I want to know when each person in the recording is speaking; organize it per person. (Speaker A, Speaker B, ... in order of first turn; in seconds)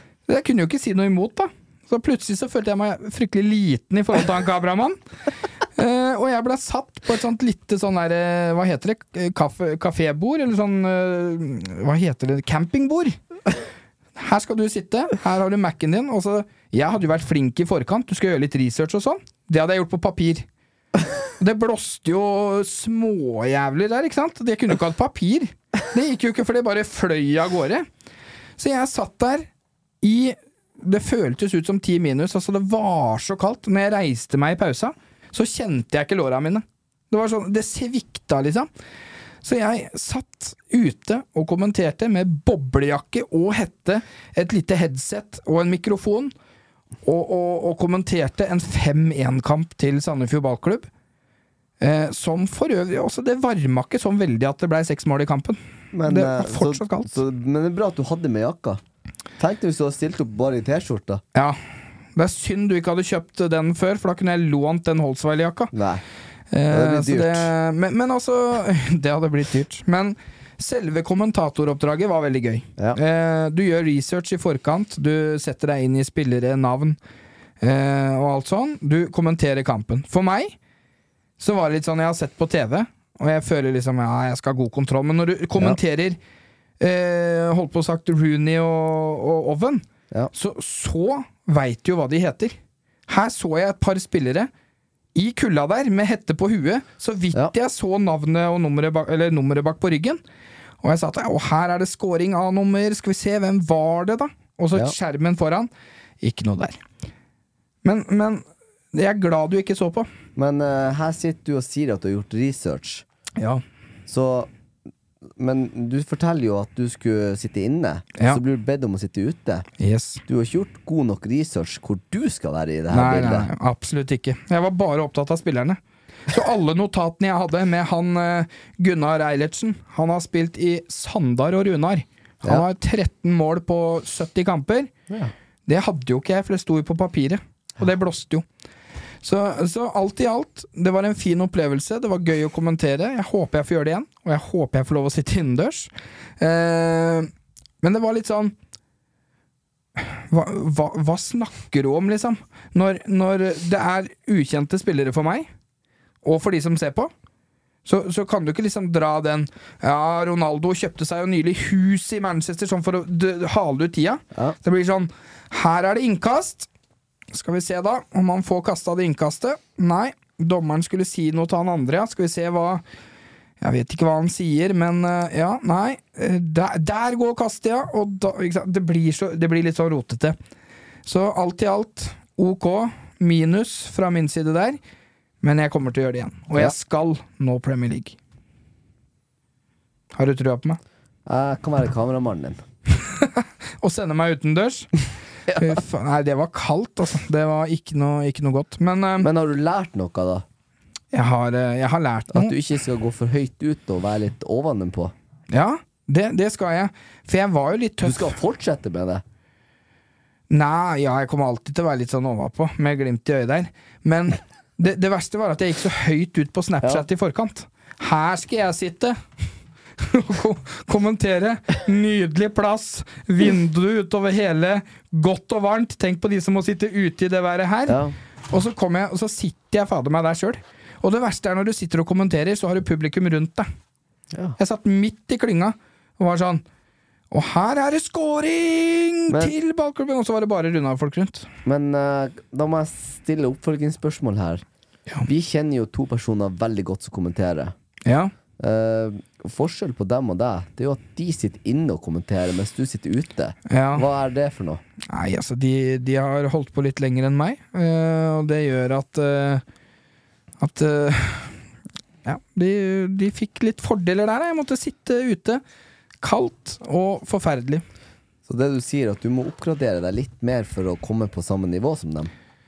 Speaker A: 0.3-5.0, 5.8-13.1, 14.2-20.4, 21.4-27.9, 28.6-29.5, 30.0-38.7, 39.4-46.3, 47.0-50.9, 51.8-57.2, 62.1-65.7, 66.5-77.0, 77.6-80.6, 81.4-86.2, 86.8-92.5, 93.1-94.5, 95.1-100.2, 100.8-105.7, 106.2-106.8, 107.8-110.1, 119.8-120.2, 122.9-134.9, 135.7-138.4, 139.2-147.3, 147.8-148.5, 150.0-155.5, 156.2-157.1, 157.8-166.7, 167.3-172.8, 173.6-180.3, 181.0-184.8, 185.4-188.2, 190.1-190.8, 193.0-194.9, 195.5-199.3, 201.1-202.6, 205.5-208.4, 210.5-219.2, 220.0-233.7, 234.6-236.6, 237.3-241.5, 248.0-248.3, 253.7-254.0, 255.1-259.6, 260.6-261.6, 262.2-265.6, 266.2-267.8
Speaker B: 55.9-58.8, 59.4-61.2, 65.7-66.0, 66.7-67.5, 110.3-113.0, 114.1-114.5, 115.4-119.7, 120.3-123.5, 191.2-192.6, 195.5-195.8, 199.2-200.4, 202.3-205.1, 208.0-209.2, 227.9-228.1, 234.3-234.6, 241.6-244.6, 245.2-247.7, 248.6-254.8, 268.5-272.3